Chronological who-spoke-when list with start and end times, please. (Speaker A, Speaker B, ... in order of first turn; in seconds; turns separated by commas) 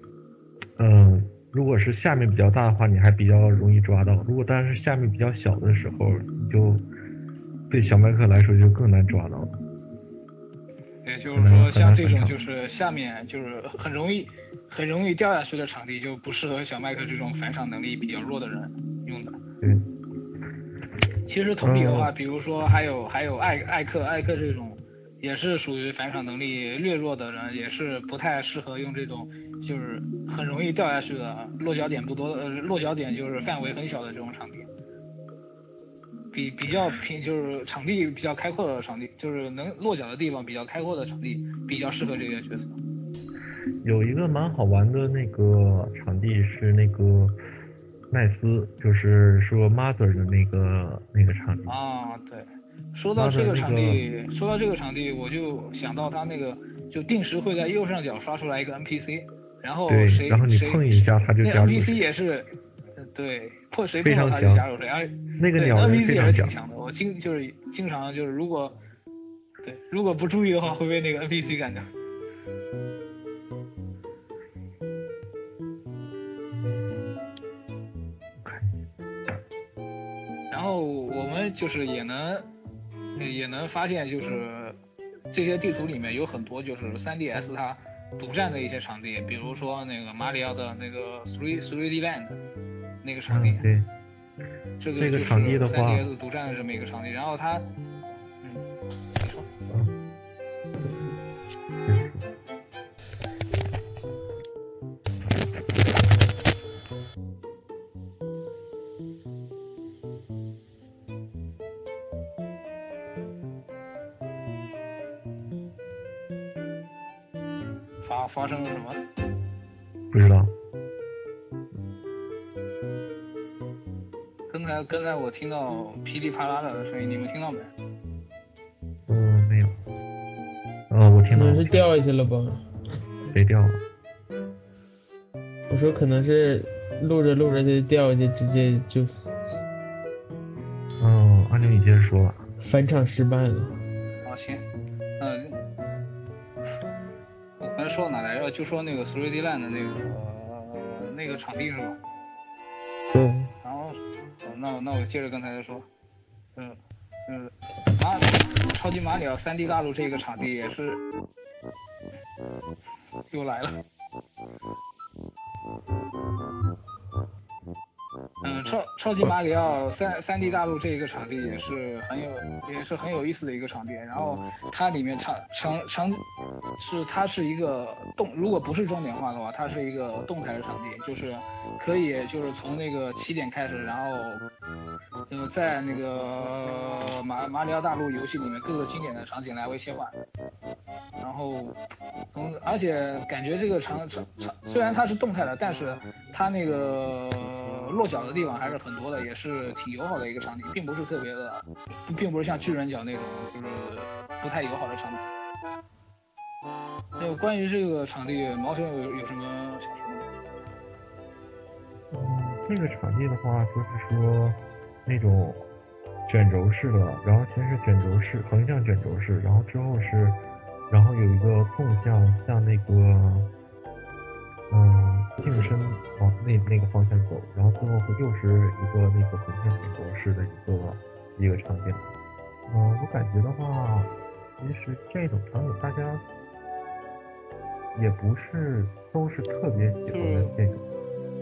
Speaker A: 0.8-6.9, Speaker A: 7.7-9.6, Speaker B: 11.0-19.4, Speaker A: 11.3-12.4, Speaker A: 19.6-19.9, Speaker B: 21.3-34.7, Speaker A: 21.6-22.1, Speaker B: 36.3-42.8, Speaker A: 43.8-47.4, Speaker A: 48.1-51.8, Speaker B: 51.7-68.8, Speaker A: 53.1-54.0, Speaker A: 59.9-62.1, Speaker A: 64.0-64.7, Speaker A: 65.4-66.5, Speaker B: 69.6-71.9, Speaker A: 78.4-78.8, Speaker B: 80.5-82.5, Speaker B: 83.2-84.8, Speaker B: 85.3-92.4, Speaker B: 93.0-93.7, Speaker A: 93.3-93.9, Speaker B: 94.8-97.7, Speaker A: 95.0-96.1, Speaker B: 99.2-99.5, Speaker A: 101.8-102.3, Speaker B: 118.0-119.0, Speaker A: 120.1-120.5, Speaker B: 124.5-127.7, Speaker A: 129.1-129.8, Speaker A: 130.9-131.9, Speaker C: 131.3-132.7, Speaker A: 133.3-133.8, Speaker C: 135.7-139.2, Speaker A: 141.0-142.5, Speaker C: 142.6-143.8, Speaker B: 144.2-144.7, Speaker B: 145.2-145.6, Speaker B: 147.6-152.0, Speaker C: 153.1-153.5, Speaker B: 153.6-155.9, Speaker B: 156.6-161.0, Speaker B: 163.3-163.8, Speaker B: 168.4-176.2, Speaker B: 176.8-184.4, Speaker B: 185.3-190.2, Speaker B: 191.2-191.8, Speaker B: 192.3-205.3, Speaker B: 207.2-210.2, Speaker A: 212.1-215.6, Speaker A: 216.3-223.5, Speaker A: 224.7-232.1, Speaker A: 232.7-236.2, Speaker A: 237.9-240.8, Speaker B: 240.1-240.5